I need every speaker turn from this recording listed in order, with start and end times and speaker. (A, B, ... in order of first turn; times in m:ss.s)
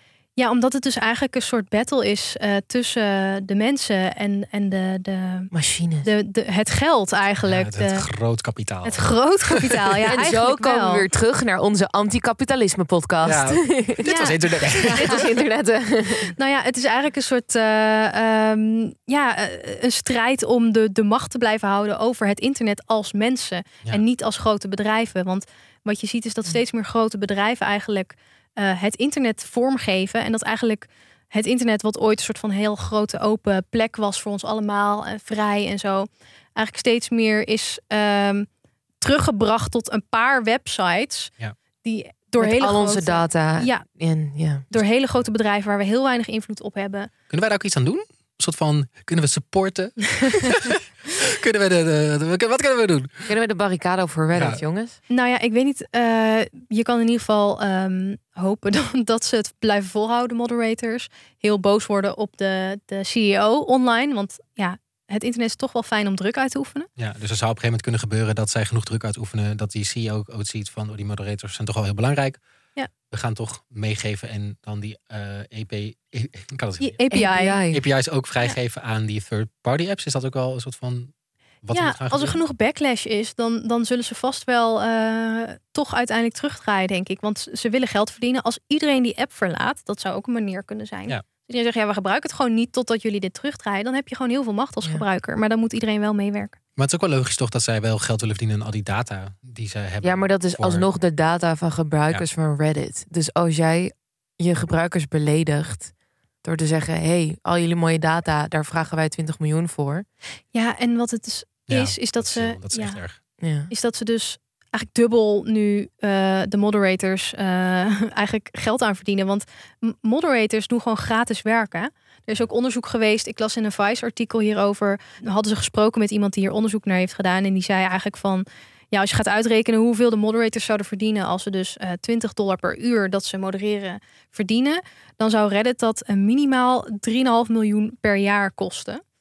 0:00.4-0:05.5 A
0:05.5-0:06.1 B
0:06.0-0:08.0 A
0:07.4-0:10.0 C
0:08.8-0:11.1 A
0:10.1-0:14.0 B
0:13.2-0:15.2 C
0:14.0-0:15.2 A
0:14.9-0:16.3 B
0:16.3-0:38.5 A
0:39.0-0:41.3 A
0:41.8-0:43.8 A
0:42.4-0:44.6 B
0:44.7-0:47.1 A
0:47.3-0:53.3 C
0:53.3-0:55.0 B
0:54.3-0:54.6 C
0:55.1-1:06.9 A
1:07.0-1:12.4 C
1:13.1-1:17.0 C
1:16.8-1:17.6 A
1:17.1-1:17.8 B
1:17.7-1:21.1 C
1:21.6-1:22.4 C
1:21.7-1:36.6 A
1:36.8-1:40.9 C
1:40.0-1:45.9 B
1:46.4-1:50.0 B
1:50.5-1:53.0 A
1:51.7-1:53.2 C
1:53.4-1:53.7 B
1:53.7-2:19.0 A